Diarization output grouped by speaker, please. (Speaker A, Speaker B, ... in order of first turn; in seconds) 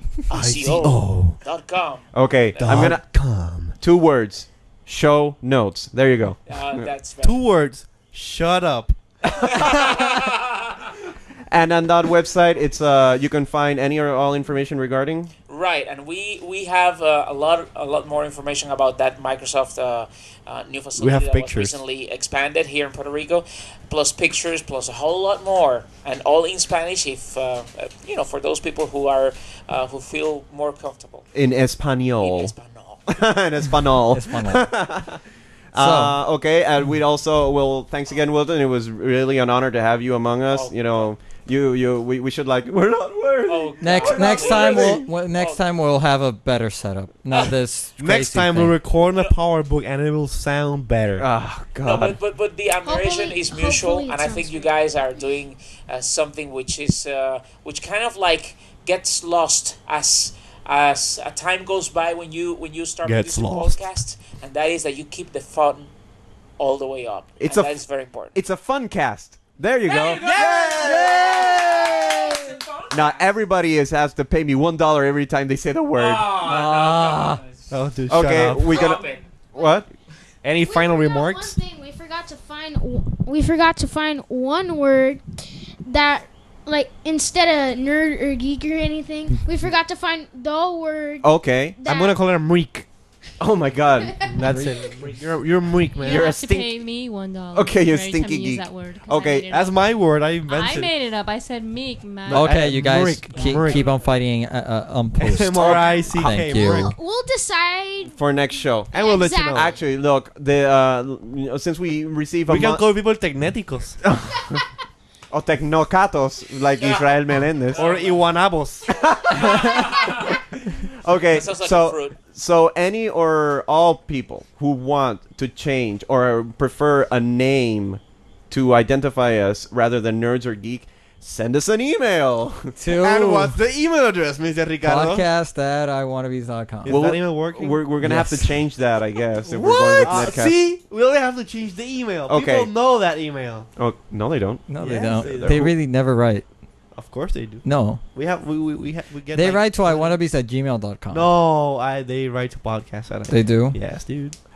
Speaker A: 0.2-2.9, 6.5-7.4, 9.4-10.9, 15.5-31.3, 32.2-33.1, 40.5-41.1, 43.5-45.6, 51.8-65.9, 66.6-68.3, 69.8-73.3, 75.9-79.3, 103.3-104.1, 116.8-118.3, 119.3-120.4, 121.3-122.2
Speaker B: 0.3-1.4, 2.6-3.7, 7.2-9.0, 20.9-21.8, 48.0-51.2, 63.0-63.8, 77.7-78.9, 80.4-81.6, 91.8-92.9, 94.2-96.4, 99.5-100.9, 102.3-103.9, 105.2-106.9, 108.9-109.7, 112.5-114.0, 117.8-118.9, 132.9-135.3, 136.8-138.2, 139.4-143.7, 144.8-145.7, 146.9-150.2, 151.1-154.4
Speaker C: 2.1-3.0, 3.8-6.9, 9.3-10.1, 11.5-15.3, 31.3-32.5, 33.1-35.2, 35.7-45.0, 51.1-52.2, 67.4-67.8, 68.3-76.3, 78.1-79.9, 91.2-91.8, 93.4-94.4, 96.0-96.8, 97.5-99.5, 105.6-105.8, 108.2-112.8, 114.1-114.6, 115.3-117.9, 118.9-132.8, 136.8-140.6, 142.3-142.7, 143.8-145.7
Speaker D: 34.1-34.7, 35.8-36.2, 43.8-48.8, 76.4-77.4, 102.3-106.9, 132.8-133.6, 134.8-137.0, 138.0-138.4, 144.7-146.4, 147.6-148.0, 149.3-151.3, 153.3-153.8
Speaker E: 52.8-54.7, 80.6-92.2, 106.5-108.1, 108.9-109.7
Speaker F: 96.0-99.8, 100.5-102.5